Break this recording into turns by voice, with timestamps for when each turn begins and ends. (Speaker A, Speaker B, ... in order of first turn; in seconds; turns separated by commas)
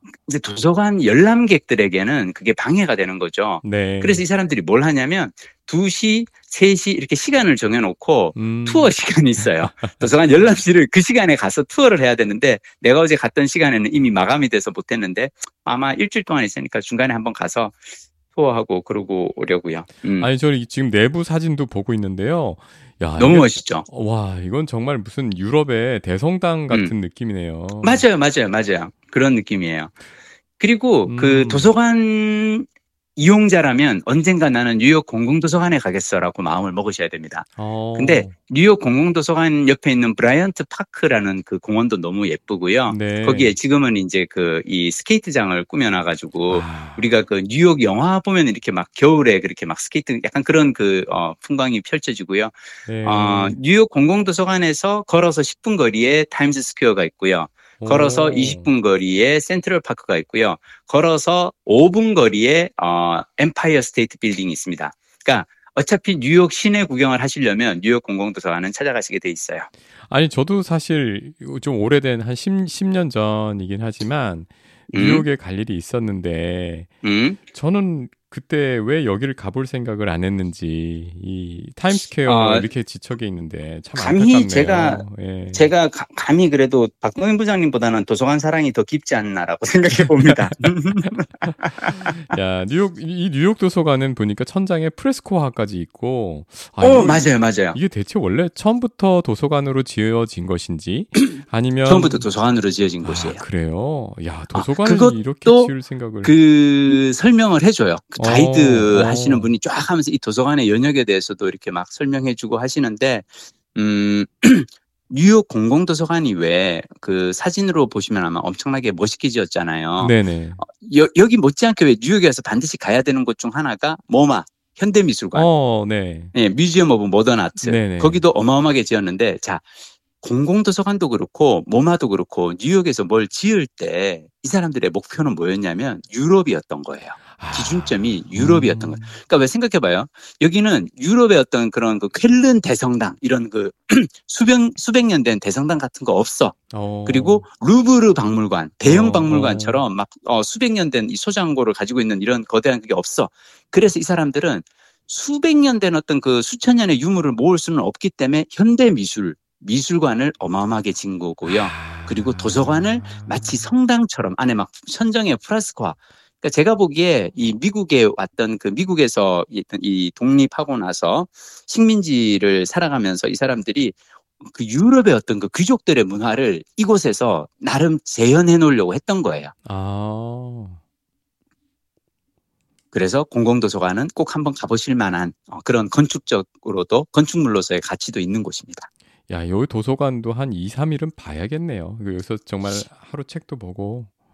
Speaker A: 0.2-17.8, Speaker B: 3.6-4.2, Speaker B: 8.3-8.9, Speaker A: 18.3-20.3, Speaker B: 20.2-28.0, Speaker A: 23.2-23.9, Speaker A: 27.8-29.9, Speaker A: 30.6-69.7, Speaker B: 31.0-31.7, Speaker B: 37.6-38.3, Speaker B: 42.9-43.5, Speaker B: 46.5-47.0, Speaker B: 52.9-53.5, Speaker B: 57.8-58.7, Speaker B: 70.1-76.9, Speaker A: 74.9-75.2, Speaker A: 77.0-77.4, Speaker B: 77.5-85.7, Speaker A: 82.2-82.7, Speaker A: 84.0-92.2, Speaker B: 91.9-102.3, Speaker A: 96.8-97.8, Speaker A: 101.2-103.4, Speaker B: 103.0-106.3, Speaker A: 104.5-105.7, Speaker A: 106.2-125.5, Speaker B: 108.2-109.5, Speaker B: 120.0-120.6, Speaker B: 125.3-126.3, Speaker A: 126.3-129.6, Speaker B: 127.6-128.2, Speaker A: 130.2-179.5, Speaker B: 137.3-139.2, Speaker B: 146.7-147.4, Speaker B: 148.8-149.8, Speaker B: 161.5-163.7, Speaker B: 179.7-180.8, Speaker A: 182.9-188.9, Speaker B: 189.3-194.1